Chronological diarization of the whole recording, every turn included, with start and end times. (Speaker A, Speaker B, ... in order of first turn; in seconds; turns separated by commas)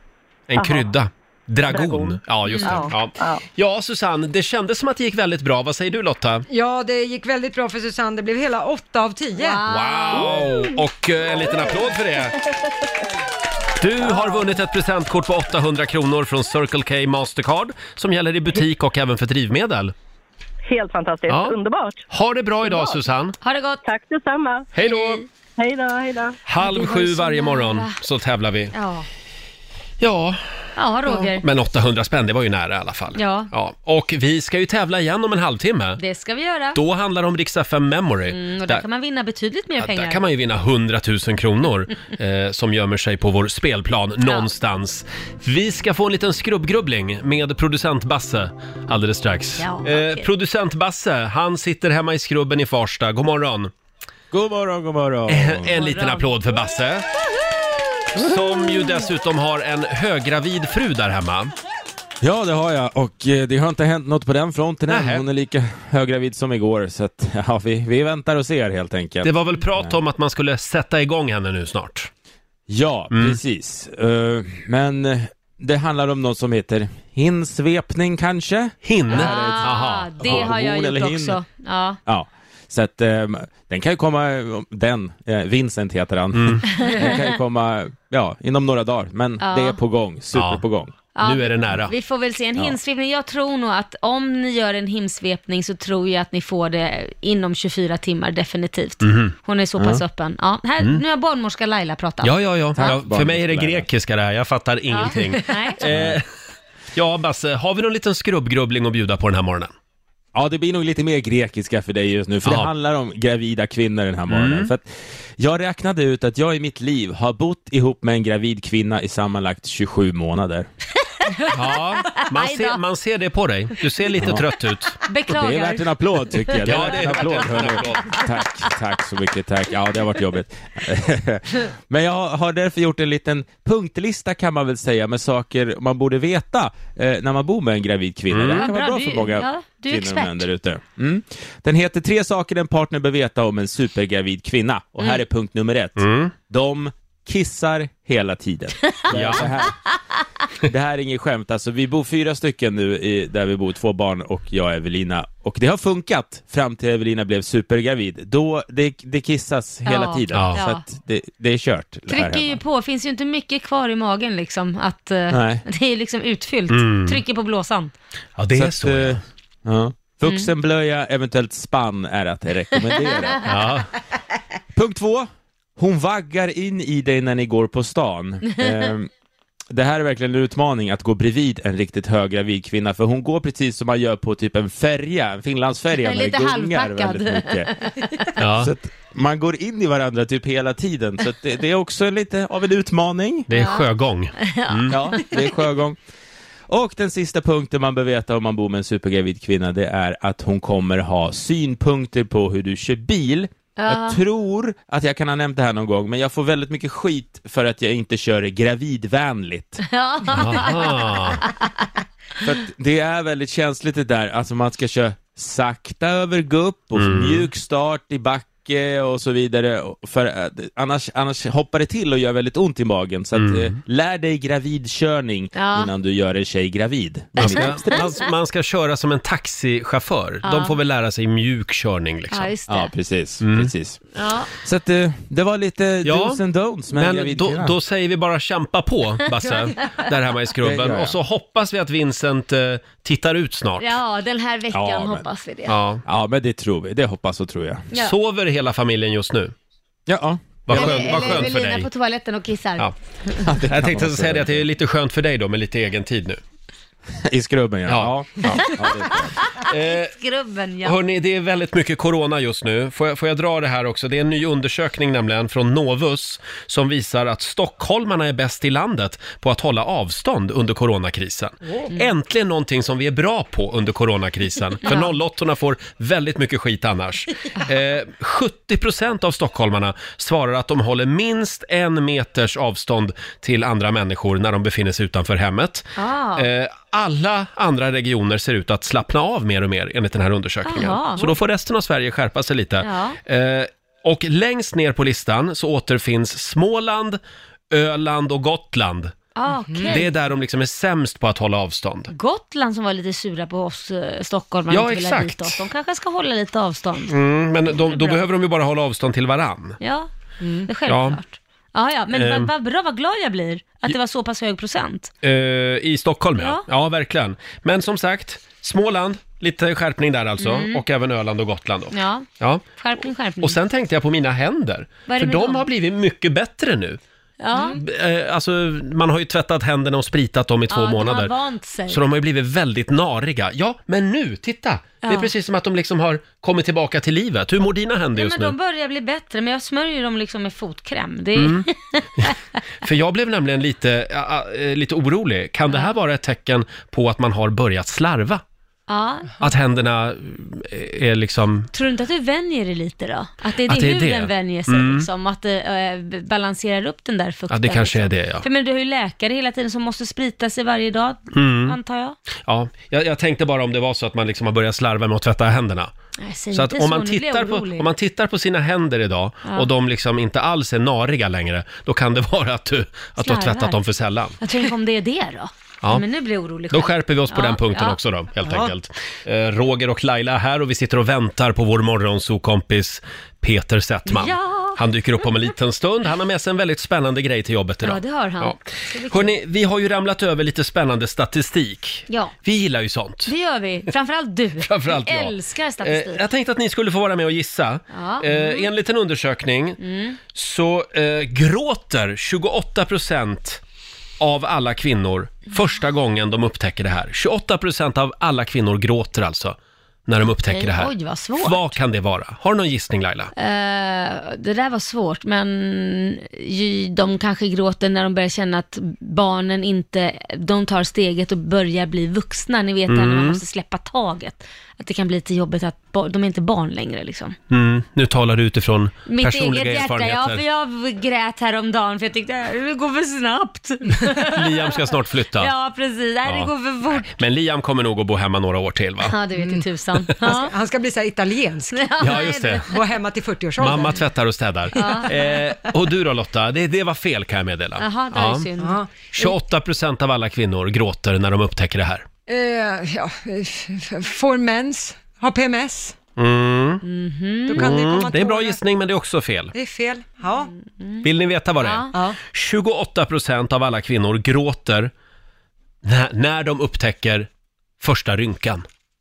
Speaker A: 0.5-6.5, Speaker B: 0.5-0.8, Speaker B: 1.7-3.4, Speaker C: 2.5-2.9, Speaker D: 6.5-9.6, Speaker C: 9.3-10.4, Speaker A: 9.7-12.4, Speaker A: 13.8-19.9, Speaker B: 20.7-22.0, Speaker A: 21.3-21.6, Speaker A: 22.1-23.3, Speaker C: 23.4-23.8, Speaker B: 23.8-24.7, Speaker A: 24.7-25.2, Speaker C: 24.8-25.2, Speaker B: 25.6-26.4, Speaker A: 26.4-28.7, Speaker C: 26.6-28.0, Speaker C: 28.7-29.1, Speaker A: 30.0-30.4, Speaker C: 30.8-31.4, Speaker A: 31.4-36.0, Speaker C: 33.1-33.5, Speaker C: 36.0-36.8, Speaker A: 36.7-38.8, Speaker C: 38.3-40.2, Speaker A: 39.8-53.7, Speaker C: 44.2-44.5, Speaker C: 49.6-50.3, Speaker E: 54.3-55.7, Speaker A: 55.3-57.0, Speaker C: 55.8-56.2, Speaker A: 58.1-61.5, Speaker E: 62.2-70.0, Speaker A: 64.9-65.2, Speaker A: 69.2-72.1, Speaker E: 72.7-81.4, Speaker A: 73.1-73.4, Speaker A: 78.8-80.5, Speaker C: 79.1-82.0, Speaker E: 82.0-90.9, Speaker A: 86.3-86.7, Speaker C: 86.7-87.2, Speaker C: 89.4-89.8, Speaker A: 90.3-90.6, Speaker C: 91.1-103.0, Speaker A: 91.2-91.9, Speaker A: 99.0-99.3, Speaker E: 99.8-100.0, Speaker A: 102.2-106.2, Speaker E: 102.8-103.9, Speaker C: 104.9-105.8, Speaker E: 105.8-106.2, Speaker A: 106.9-109.7, Speaker E: 110.3-120.7, Speaker A: 112.4-112.7, Speaker A: 114.3-114.7, Speaker A: 121.5-125.0, Speaker C: 122.2-122.8, Speaker E: 124.2-124.4, Speaker C: 125.1-127.4, Speaker E: 125.3-149.8, Speaker A: 126.6-128.2, Speaker A: 138.3-138.7, Speaker C: 138.5-140.5, Speaker A: 146.0-146.3, Speaker A: 149.1-149.5, Speaker E: 150.7-162.6, Speaker C: 159.8-160.8, Speaker A: 160.3-160.6, Speaker C: 162.1-167.9, Speaker E: 165.3-165.6, Speaker A: 166.7-167.2, Speaker A: 168.4-169.2, Speaker E: 168.5-173.5, Speaker A: 173.4-173.9, Speaker E: 174.7-179.1, Speaker E: 179.7-187.7, Speaker C: 185.9-188.3, Speaker A: 188.4-188.7, Speaker E: 188.4-193.5, Speaker A: 193.5-195.0, Speaker C: 193.5-193.8, Speaker C: 194.4-195.4, Speaker E: 194.9-196.0, Speaker E: 196.7-209.8, Speaker C: 203.8-204.2, Speaker C: 209.9-211.7, Speaker A: 210.3-211.4, Speaker E: 212.4-228.2, Speaker A: 216.9-217.5, Speaker A: 223.3-223.8, Speaker C: 225.5-225.9, Speaker C: 227.4-228.2, Speaker A: 227.4-232.5, Speaker C: 230.4-230.8, Speaker C: 232.3-232.9, Speaker E: 232.7-237.8, Speaker A: 233.4-233.7, Speaker C: 234.2-234.5, Speaker A: 236.0-243.9, Speaker E: 240.6-241.2, Speaker C: 243.8-245.8, Speaker E: 244.7-245.2, Speaker A: 245.7-246.0, Speaker E: 246.0-247.9, Speaker A: 247.9-249.5, Speaker E: 250.1-251.4, Speaker A: 250.7-251.9, Speaker C: 250.7-253.5, Speaker E: 253.4-254.7, Speaker A: 253.6-256.4, Speaker E: 257.2-259.4, Speaker A: 257.9-258.6, Speaker C: 258.4-260.9, Speaker A: 259.6-260.1, Speaker A: 260.8-299.1, Speaker D: 271.6-271.9, Speaker C: 274.9-275.1, Speaker C: 285.9-286.5, Speaker C: 290.6-291.3, Speaker C: 292.8-293.2, Speaker C: 299.4-300.1, Speaker D: 299.7-300.0, Speaker A: 299.9-302.1, Speaker C: 302.1-307.1, Speaker A: 304.7-305.6, Speaker A: 307.1-309.8, Speaker C: 307.7-308.2, Speaker C: 309.8-310.1, Speaker D: 310.4-310.7, Speaker C: 310.6-315.1, Speaker A: 310.9-311.2, Speaker A: 312.1-312.5, Speaker A: 315.2-322.6, Speaker C: 316.4-316.6, Speaker C: 320.4-320.8, Speaker C: 321.9-323.6, Speaker A: 323.4-327.0, Speaker C: 325.1-325.6, Speaker C: 327.4-327.8, Speaker A: 327.6-331.3, Speaker C: 330.7-332.0, Speaker A: 331.9-338.5, Speaker C: 335.0-335.3, Speaker C: 338.1-342.4, Speaker A: 341.4-341.7, Speaker A: 342.2-348.4, Speaker C: 348.9-349.4, Speaker A: 349.4-351.7, Speaker C: 351.7-362.1, Speaker A: 353.6-355.1, Speaker A: 357.5-358.4, Speaker A: 361.3-361.8, Speaker A: 362.4-365.9, Speaker C: 366.2-367.9, Speaker A: 366.5-374.4, Speaker C: 373.2-373.8, Speaker C: 374.4-378.0, Speaker A: 376.7-393.3, Speaker C: 384.1-384.8, Speaker C: 387.8-389.4, Speaker C: 392.1-392.3, Speaker C: 393.2-396.2, Speaker A: 394.6-399.8, Speaker C: 397.9-398.7, Speaker C: 399.8-400.2, Speaker A: 400.3-403.6, Speaker A: 404.2-413.3, Speaker C: 410.5-411.8, Speaker C: 413.4-427.4, Speaker A: 422.9-423.4, Speaker A: 427.5-430.4, Speaker C: 429.1-434.8, Speaker A: 434.2-435.5, Speaker C: 435.4-437.1, Speaker A: 436.2-439.1, Speaker C: 439.0-440.5, Speaker D: 439.4-439.6, Speaker D: 440.2-441.9, Speaker C: 441.7-442.7, Speaker A: 442.0-442.6, Speaker D: 442.7-444.0, Speaker A: 443.6-448.5, Speaker C: 444.7-445.1, Speaker D: 444.7-445.4, Speaker C: 447.8-449.3, Speaker D: 448.6-448.9, Speaker A: 449.1-452.0, Speaker D: 452.3-455.9, Speaker A: 456.2-456.8, Speaker C: 456.8-457.7, Speaker D: 457.5-458.6, Speaker A: 457.5-459.5, Speaker D: 459.5-460.5, Speaker C: 460.8-461.0, Speaker A: 461.0-464.9, Speaker C: 461.6-461.9, Speaker A: 465.8-467.3, Speaker A: 467.8-468.6